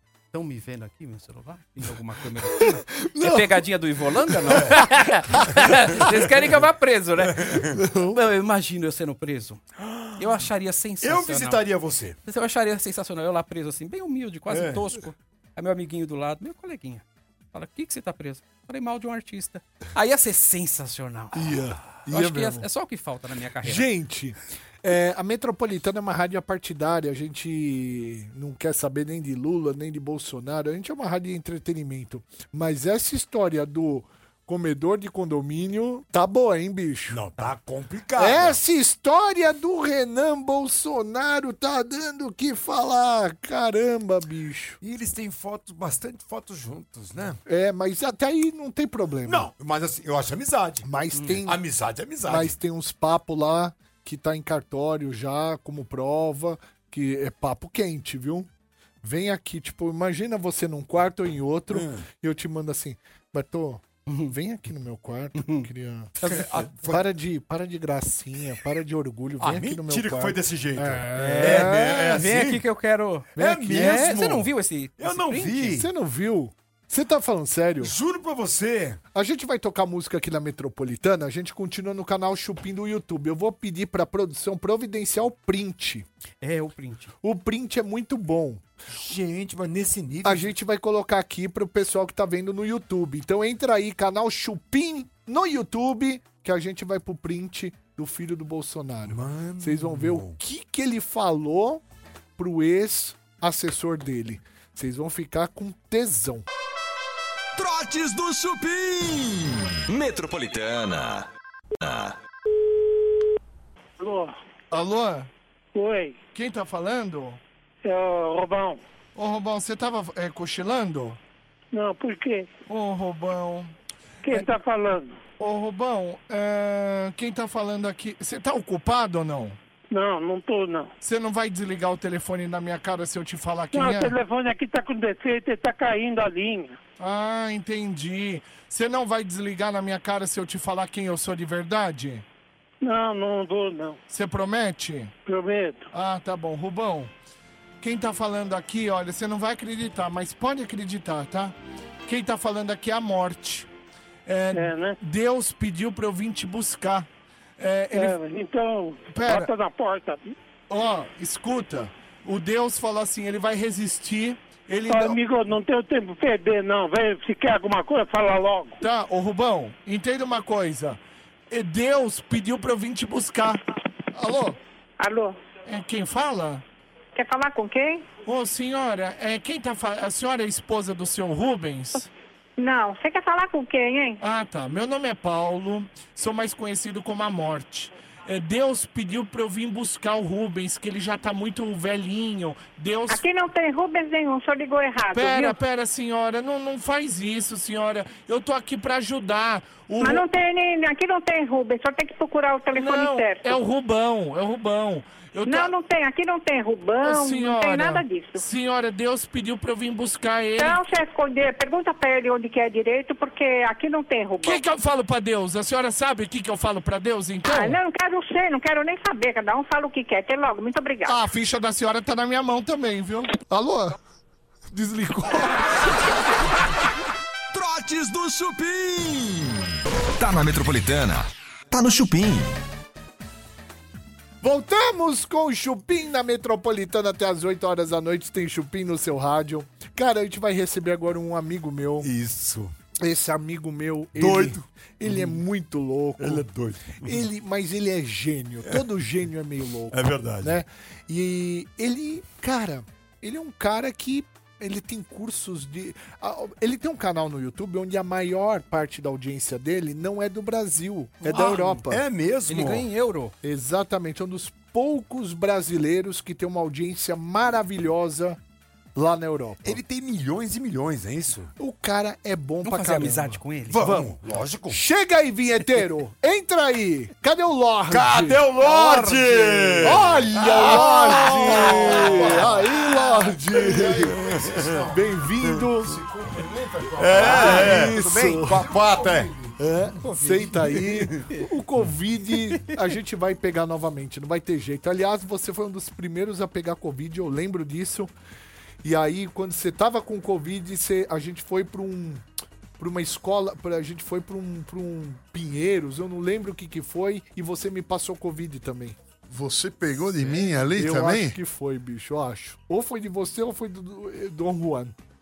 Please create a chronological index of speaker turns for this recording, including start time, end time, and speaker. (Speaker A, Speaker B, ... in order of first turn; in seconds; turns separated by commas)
Speaker A: 0.3-9.6, Speaker B: 2.9-3.6, Speaker C: 7.2-7.8, Speaker B: 7.8-8.1, Speaker C: 9.8-10.2, Speaker A: 10.2-11.6, Speaker C: 11.0-12.2, Speaker A: 12.2-21.5, Speaker C: 14.5-14.9, Speaker B: 21.3-22.7, Speaker A: 22.1-23.9, Speaker B: 23.6-37.2, Speaker C: 37.1-38.6, Speaker B: 38.2-44.8, Speaker C: 44.8-47.4, Speaker B: 47.5-49.5, Speaker C: 49.3-50.9, Speaker B: 50.8-51.6, Speaker A: 51.1-51.4, Speaker C: 51.4-52.5, Speaker B: 52.2-58.5, Speaker B: 59.0-66.3, Speaker C: 61.7-62.0, Speaker A: 64.1-64.3, Speaker A: 65.4-65.7, Speaker C: 66.2-67.0, Speaker B: 66.8-72.2, Speaker C: 69.4-72.7, Speaker A: 71.2-75.8, Speaker C: 73.4-75.9, Speaker B: 73.4-74.1, Speaker B: 75.7-77.9, Speaker C: 77.8-79.0, Speaker B: 79.1-86.1, Speaker A: 86.4-87.1, Speaker B: 87.2-88.6, Speaker C: 88.9-90.5, Speaker B: 90.2-101.8, Speaker C: 99.1-100.4, Speaker B: 102.4-106.5, Speaker D: 107.5-111.3, Speaker D: 111.8-112.2, Speaker E: 114.0-114.3, Speaker F: 114.7-115.3, Speaker E: 115.7-116.2, Speaker F: 116.3-117.4, Speaker E: 117.8-118.8, Speaker F: 119.2-121.2, Speaker E: 121.7-122.5, Speaker F: 122.7-123.7, Speaker E: 124.2-125.2, Speaker F: 125.4-129.6, Speaker E: 129.9-130.9, Speaker F: 131.0-134.2, Speaker E: 133.7-136.8, Speaker F: 137.0-142.2, Speaker E: 142.8-144.0, Speaker F: 144.1-145.1, Speaker E: 145.3-145.9, Speaker F: 145.9-147.1, Speaker F: 147.8-151.6, Speaker F: 152.1-153.7, Speaker F: 154.3-158.2, Speaker E: 154.6-155.0, Speaker E: 157.9-160.2, Speaker F: 159.1-159.5, Speaker F: 160.7-165.2, Speaker E: 164.9-168.8, Speaker F: 168.8-173.6, Speaker F: 174.1-174.6, Speaker G: 175.0-175.4, Speaker F: 175.7-176.6, Speaker G: 177.2-178.1, Speaker F: 178.2-182.1, Speaker G: 182.6-184.2, Speaker F: 184.2-193.2, Speaker G: 193.1-195.6, Speaker F: 195.1-200.3, Speaker G: 200.0-203.6, Speaker F: 202.7-205.7, Speaker G: 205.5-208.4, Speaker F: 207.0-210.8, Speaker G: 210.6-214.6, Speaker F: 214.4-217.8, Speaker G: 217.5-221.2, Speaker F: 221.1-223.5, Speaker B: 223.5-223.9, Speaker B: 224.7-225.9, Speaker D: 227.5-232.6, Speaker B: 234.4-242.1, Speaker C: 242.0-242.7, Speaker B: 243.0-246.5, Speaker C: 244.2-245.4, Speaker C: 246.2-247.2, Speaker B: 247.0-262.0, Speaker C: 249.9-250.6, Speaker A: 261.2-261.8, Speaker C: 261.9-262.9, Speaker A: 262.5-263.3, Speaker B: 263.4-268.4, Speaker B: 268.9-269.8, Speaker C: 269.6-271.5, Speaker B: 271.6-274.2, Speaker A: 272.6-273.9, Speaker C: 273.7-274.8, Speaker B: 274.7-284.2, Speaker C: 277.9-284.8, Speaker H: 281.3-285.2, Speaker B: 284.9-285.9, Speaker H: 285.8-289.6, Speaker C: 287.0-289.3, Speaker B: 287.2-288.7, Speaker A: 287.5-287.8, Speaker B: 289.6-298.1, Speaker A: 290.0-290.5, Speaker C: 290.6-291.1, Speaker B: 298.8-302.2, Speaker B: 302.8-309.0, Speaker H: 309.3-311.4, Speaker B: 310.7-315.0